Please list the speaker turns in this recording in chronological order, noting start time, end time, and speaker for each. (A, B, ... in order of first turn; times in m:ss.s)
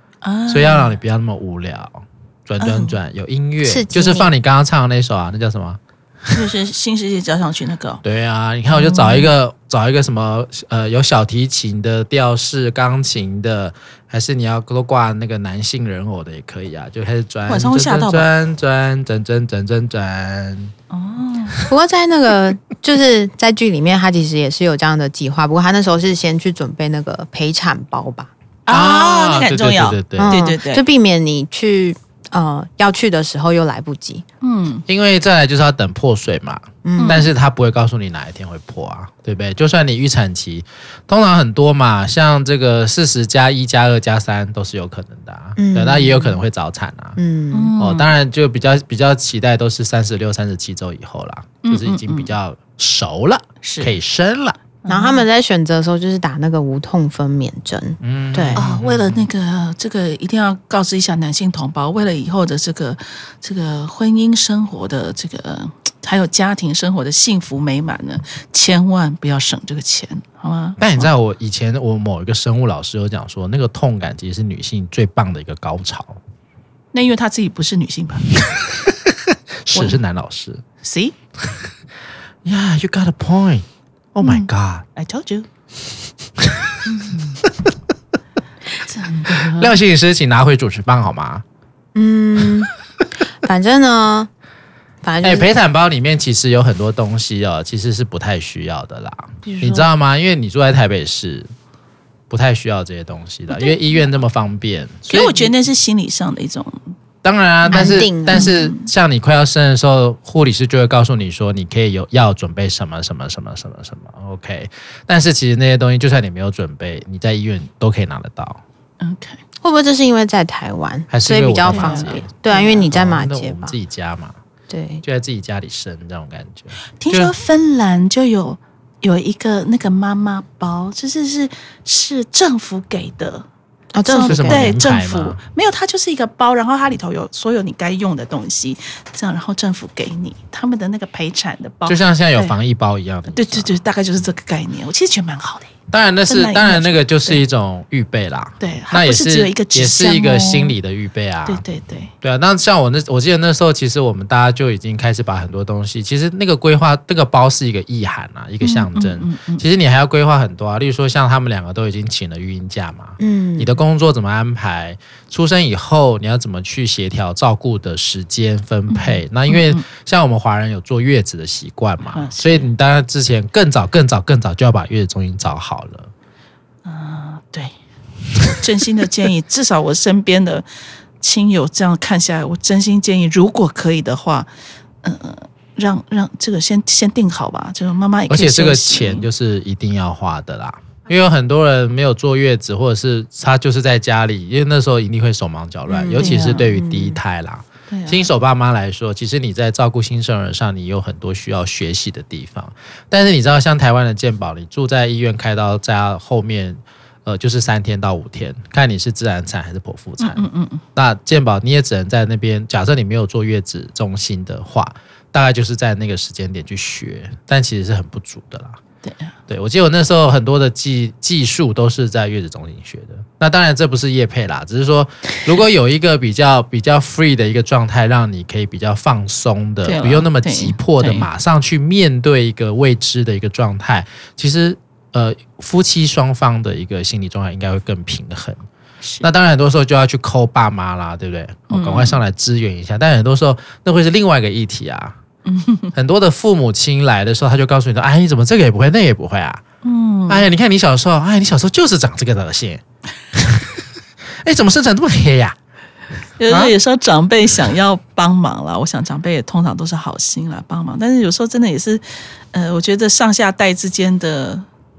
0:00.2-0:01.0 A
0:00.5-0:05.8 B
0:02.6-0:03.0 A
0:03.6-0:04.3 C
0:06.3-0:08.0 A
0:08.0-0:20.7 B
0:08.7-0:09.3 A
0:17.5-0:18.3 A
0:20.9-0:21.6 A
0:21.7-0:28.3 C
0:28.6-0:30.8 A
0:28.7-0:30.4 B
0:30.2-0:34.2 C
0:34.4-0:34.8 A
0:34.9-0:47.2 B
0:36.8-0:37.2 C
0:37.0-0:37.3 A
0:45.6-0:46.4 C
0:47.2-0:47.8 C
0:47.5-0:48.1 A
0:47.8-0:54.6 B
0:51.6-0:52.3 A
0:53.6-0:53.9 A
0:54.8-0:55.2 A
0:54.9-0:58.6 C
0:58.0-0:59.3 B
0:58.6-1:11.1 A
1:10.8-1:16.2 B
1:16.9-1:18.3 A
1:19.1-1:20.6 B
1:19.7-1:20.0 A
1:20.8-1:21.1 A
1:22.4-1:24.8 B
1:24.2-1:25.5 A
1:26.4-1:26.8 B
1:26.9-1:27.3 A
1:28.7-1:29.7 A
1:29.5-1:31.4 B
1:31.9-1:32.7 C
1:33.4-1:34.3 C
1:35.0-1:35.5 C
1:35.2-1:41.5 B
1:39.4-1:39.9 A
1:42.3-1:45.5 B
1:43.5-1:43.8 A
1:45.1-1:46.8 A
1:47.2-1:58.6 B
1:47.7-1:48.9 A
1:47.7-1:48.5 C
1:59.0-1:59.4 A
1:59.6-2:03.7 C
2:01.1-2:04.4 B
2:01.7-2:02.8 A
2:04.7-2:05.0 C
2:05.0-2:07.3 B
2:07.0-2:13.4 A
2:13.9-2:14.7 C
2:14.1-2:22.5 A
2:14.2-2:15.4 B
2:21.8-2:23.7 B
2:23.3-2:25.7 A
2:25.9-2:31.6 B
2:26.3-2:27.4 A
2:28.6-2:30.8 A
2:31.5-2:32.1 A
2:32.2-2:56.1 B
2:38.6-2:39.6 A
2:43.2-2:43.8 C
2:48.9-2:49.8 A
2:52.1-2:52.7 A
2:56.8-2:57.7 A
2:58.4-3:00.6 A
3:01.2-3:04.5 A
3:05.0-3:09.3 A
3:08.3-3:30.4 B
3:15.9-3:17.2 C
3:16.2-3:16.7 A
3:17.9-3:18.2 A
3:30.2-3:30.8 A
3:30.9-3:38.8 B
3:39.0-3:39.3 A
3:39.5-3:58.6 B
3:49.8-3:51.3 A
3:59.2-4:05.2 B
4:01.7-4:02.2 A
4:05.4-4:05.9 A
4:05.9-4:09.6 B
4:09.8-4:10.4 A
4:10.3-4:12.8 B
4:13.3-4:13.7 B
4:14.4-4:15.6 B
4:16.4-4:24.6 A